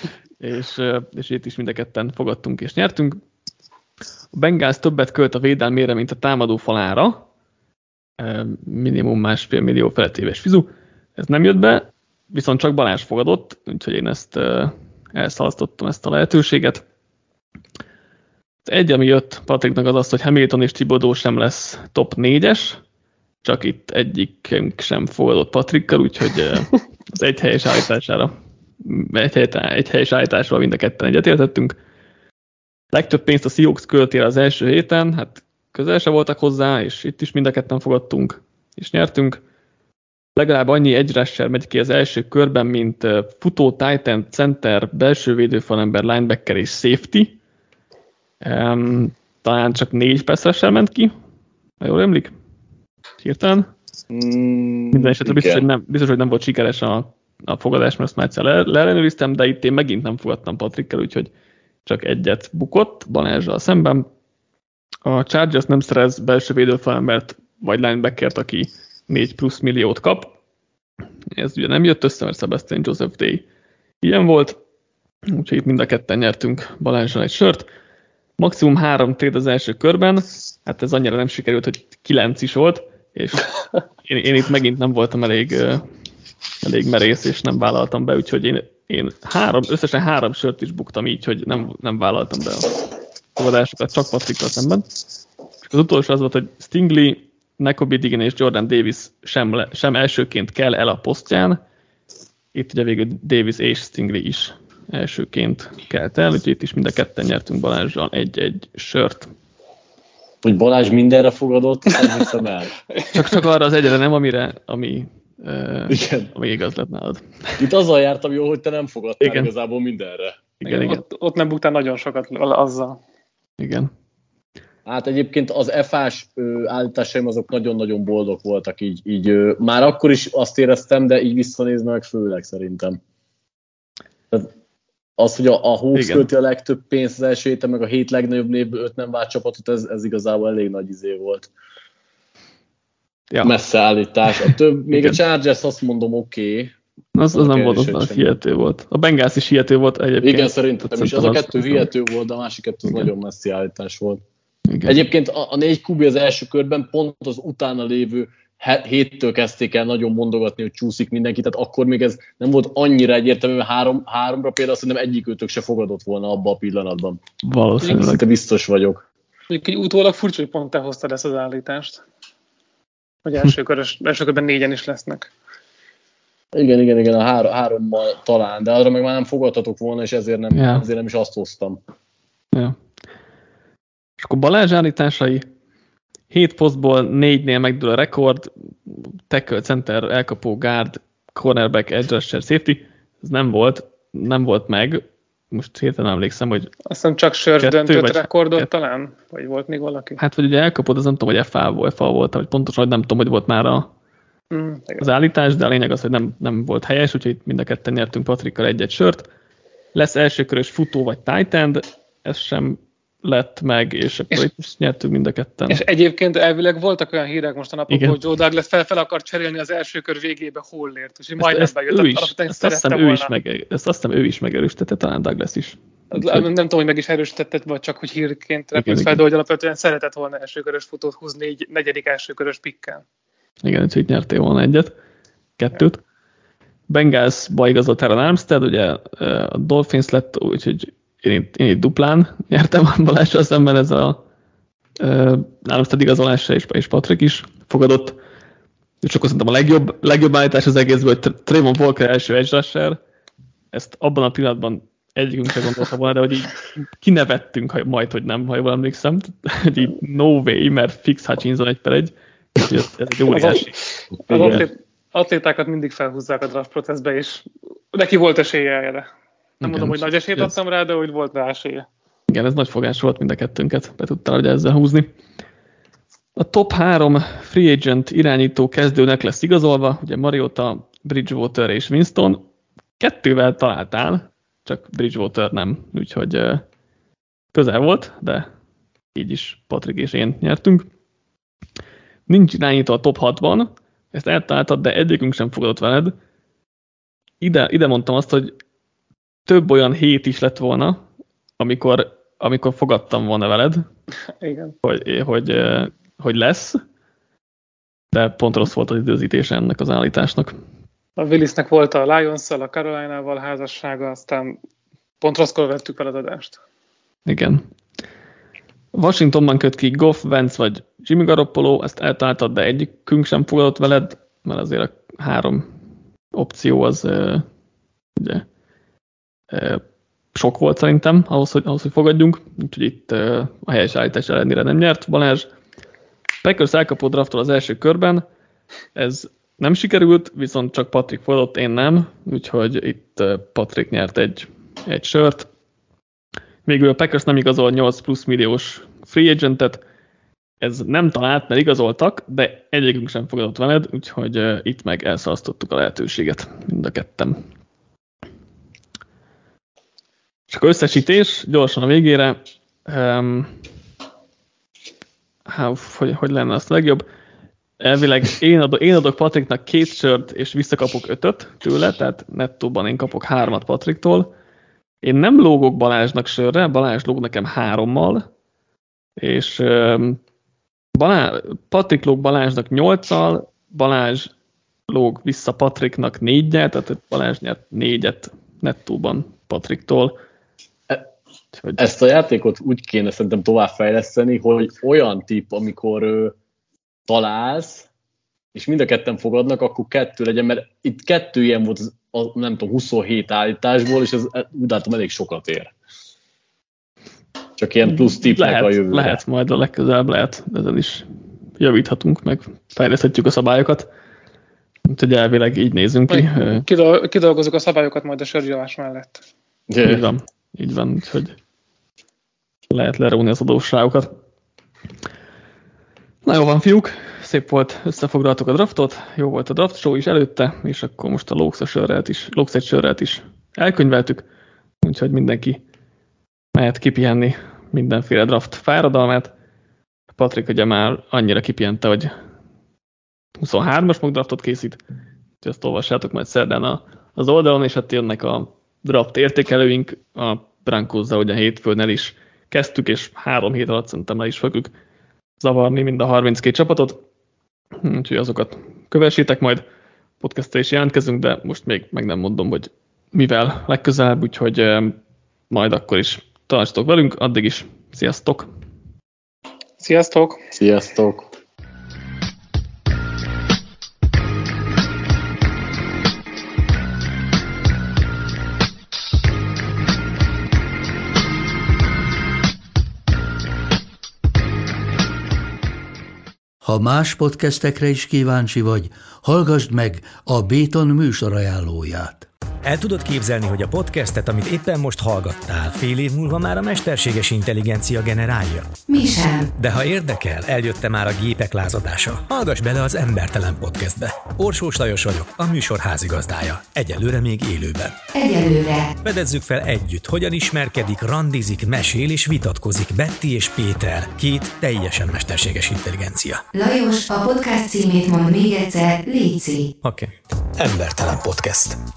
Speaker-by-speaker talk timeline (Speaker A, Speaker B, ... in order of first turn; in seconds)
Speaker A: 0.4-3.2, 4.3-7.3, 8.2-16.8, 18.7-22.8, 23.4-31.8, 32.9-39.4, 40.4-47.4, 48.4-51.1, 51.8-52.3, 53.2-53.7, 54.9-61.3, 61.9-64.1, 65.0-70.3, 71.3-73.5, 74.0-74.6, 75.3-77.7, 78.4-83.5, 84.0-85.8, 86.6-92.8, 93.4-94.9, 95.7-101.6, 102.5-109.3, 113.1-117.6, 119.2-119.5, 120.6-121.0, 123.6-123.9, 135.9-136.3, 144.3-145.2, 147.2-151.9, 154.7-155.0, 167.4-168.2, 180.5-180.9, 184.2-185.5, 186.3-196.7, 197.6-198.7, 200.2-203.9, 205.0-209.3, 209.9-215.8, 217.9-218.2, 221.4-226.5, 228.8-229.2, 233.6-234.9, 235.6-236.0, 236.9-244.2, 245.0-248.2, 249.0-253.0, 253.7-263.8, 264.3-264.6, 269.6-270.5, 272.3-275.1, 276.4-282.4, 283.0-286.6, 287.5-288.5, 289.1-290.9, 292.3-296.1, 297.4-298.6, 299.5-301.0, 301.6-303.9, 304.8-306.8, 308.1-310.5, 317.3-317.6, 318.9-325.7, 326.3-327.4, 328.2-328.4, 329.5-329.8, 330.3-335.5, 336.4-338.2, 339.0-345.5, 346.7-349.8, 350.6-357.4, 360.5-363.6, 365.5-367.1, 367.8-374.3, 375.0-378.3, 379.2-380.2, 380.9-384.3, 384.9-390.2, 391.5-391.8, 407.9-411.1, 411.6-413.9, 414.9-416.7, 419.8-421.4, 422.7-424.1, 426.2-434.3, 434.8-435.6, 436.5-439.3, 440.1-442.1, 443.4-444.8, 445.4-454.7, 455.4-457.0, 457.8-459.6, 460.2-465.0, 465.5-468.5
Speaker B: 54.1-55.6, 110.4-112.8, 115.9-116.3, 117.6-120.4, 124.9-133.0, 135.2-141.5, 143.4-146.8, 147.3-148.3, 150.2-154.2, 154.9-167.2, 167.8-169.0, 176.5-181.8, 264.3-264.6, 391.8-396.4, 397.1-397.9, 398.5-405.7, 407.6-409.2, 419.7-420.1, 470.6-471.3
Speaker C: 120.7-123.0, 169.5-172.0, 173.2-175.3, 196.9-200.2, 204.5-205.1, 215.7-223.3, 226.1-233.0, 263.3-269.1, 269.6-271.9, 304.4-304.8, 311.2-314.6, 315.2-316.6, 416.1-419.2, 469.8-470.4
Speaker D: 486.6-492.3
Speaker E: 492.6-498.7, 499.6-508.0, 509.0-516.4, 519.8-521.8
Speaker F: 498.9-499.5, 508.1-508.9, 516.5-519.7